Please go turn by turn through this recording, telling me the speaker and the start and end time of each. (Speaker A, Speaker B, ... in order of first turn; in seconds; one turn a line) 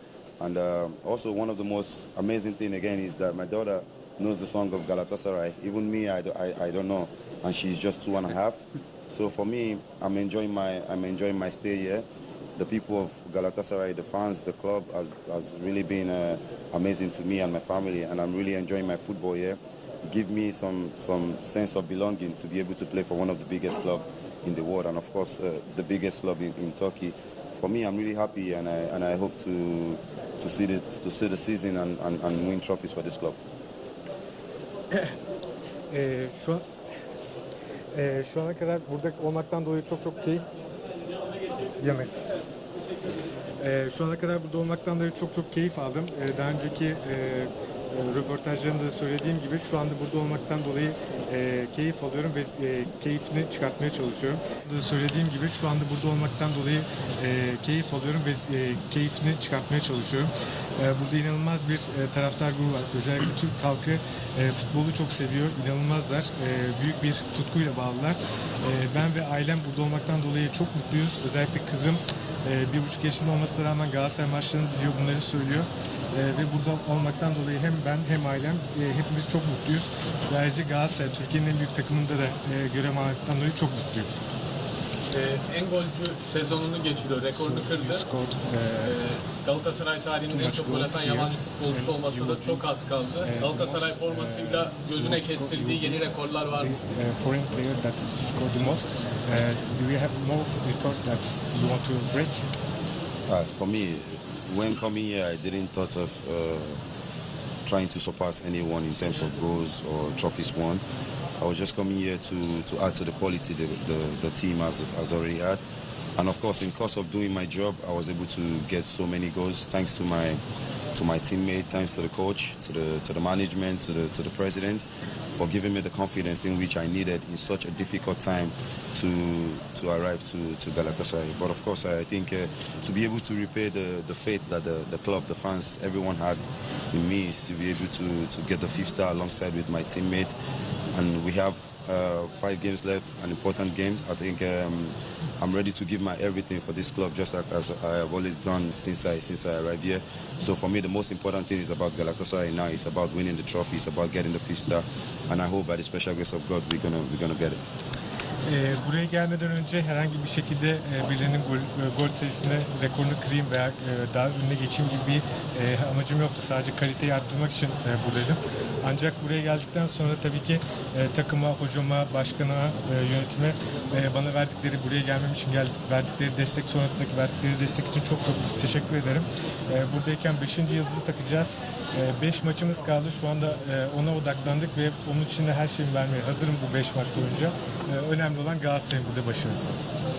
Speaker A: 0.4-12.0
Speaker A: 12.6-33.4
Speaker B: 35.9-36.6
Speaker B: 37.9-40.5
Speaker B: 41.8-42.2
Speaker B: 43.6-84.1
Speaker C: 85.1-88.1
Speaker B: 87.3-89.0
Speaker C: 88.8-96.8
Speaker B: 90.3-92.7
Speaker B: 93.2-102.5
Speaker A: 103.3-106.8
Speaker A: 107.7-110.8
Speaker A: 111.4-115.6
Speaker A: 116.2-120.4
Speaker A: 120.9-140.3
Speaker A: 140.9-157.6
Speaker B: 158.4-189.8